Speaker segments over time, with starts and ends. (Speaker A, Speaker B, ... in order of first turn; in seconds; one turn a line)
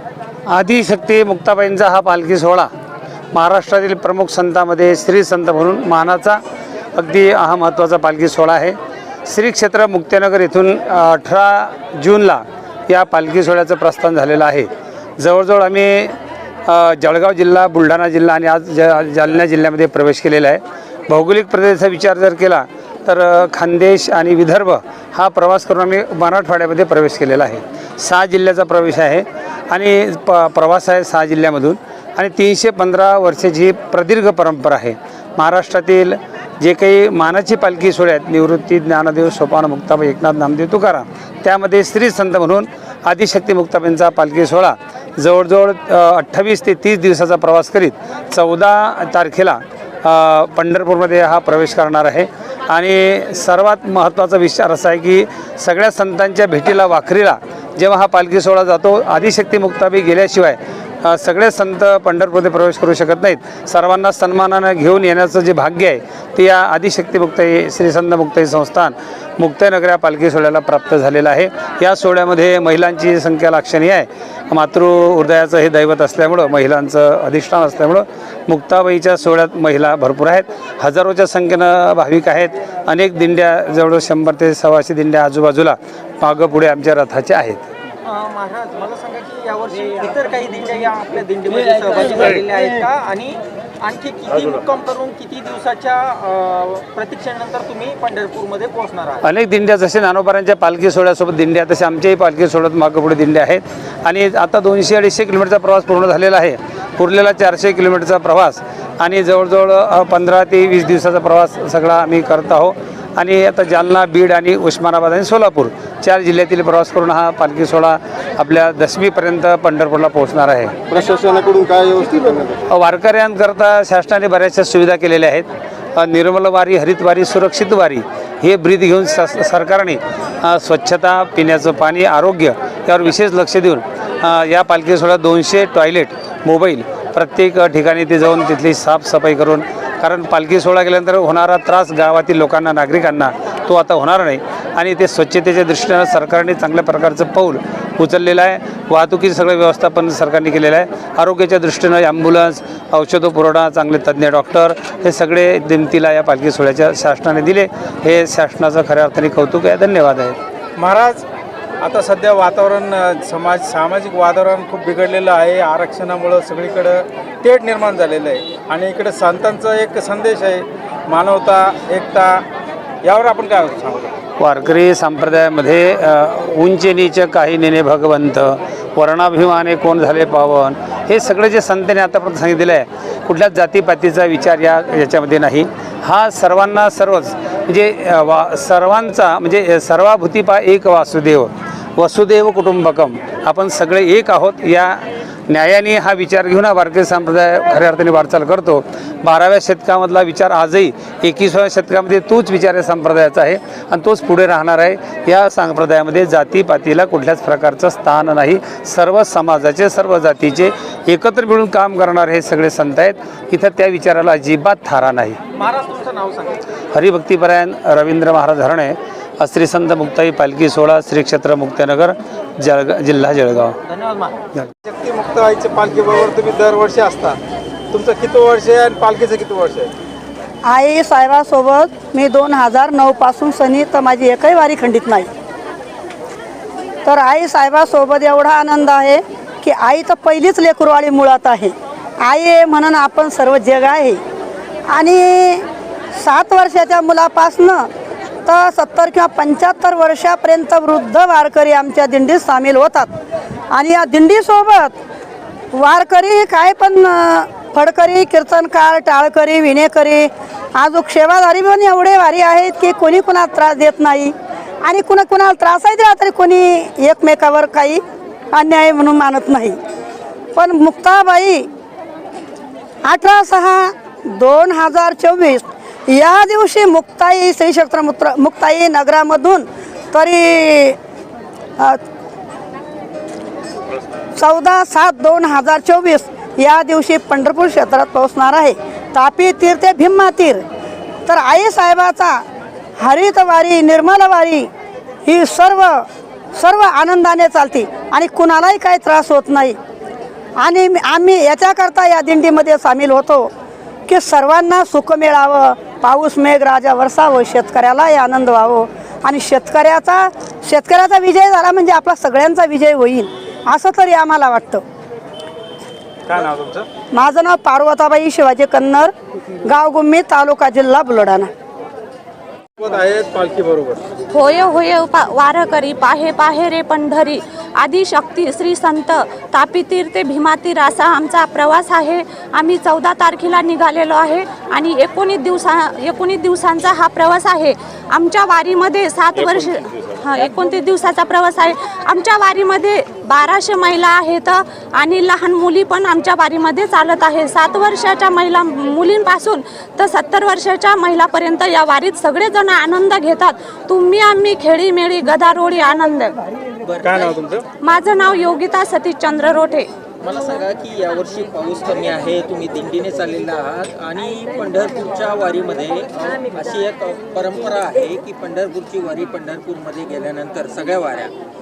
Speaker A: 0.5-2.7
Speaker A: 3.3-6.4
Speaker A: 6.9-87.7
Speaker B: 88.0-99.2
Speaker A: 99.2-120.8
Speaker B: 120.9-122.5
Speaker A: 122.5-160.4
Speaker C: 160.8-161.2
Speaker C: 161.8-172.4
Speaker C: 173.0-174.2
Speaker A: 174.4-215.4
Speaker B: 215.5-216.7
Speaker A: 216.9-223.8
Speaker B: 223.8-224.4
Speaker C: 224.8-227.4
Speaker C: 227.9-229.9
Speaker D: 230.6-235.3
Speaker D: 237.0-244.2
Speaker D: 244.9-247.9
Speaker D: 248.4-253.1
Speaker D: 253.7-255.0
Speaker D: 255.7-268.0
Speaker D: 268.5-269.8
Speaker D: 270.5-271.7
Speaker D: 273.0-281.0
Speaker D: 284.3-290.6
Speaker D: 291.2-292.4
Speaker D: 293.0-294.7
Speaker D: 295.2-299.8
Speaker D: 300.6-303.5
Speaker D: 304.1-314.8
Speaker C: 316.3-316.9
Speaker D: 317.1-319.1
Speaker D: 319.6-321.5
Speaker C: 322.8-324.0
Speaker E: 324.3-356.4
Speaker B: 356.8-357.4
Speaker C: 357.0-357.6
Speaker E: 357.8-359.9
Speaker B: 360.2-371.3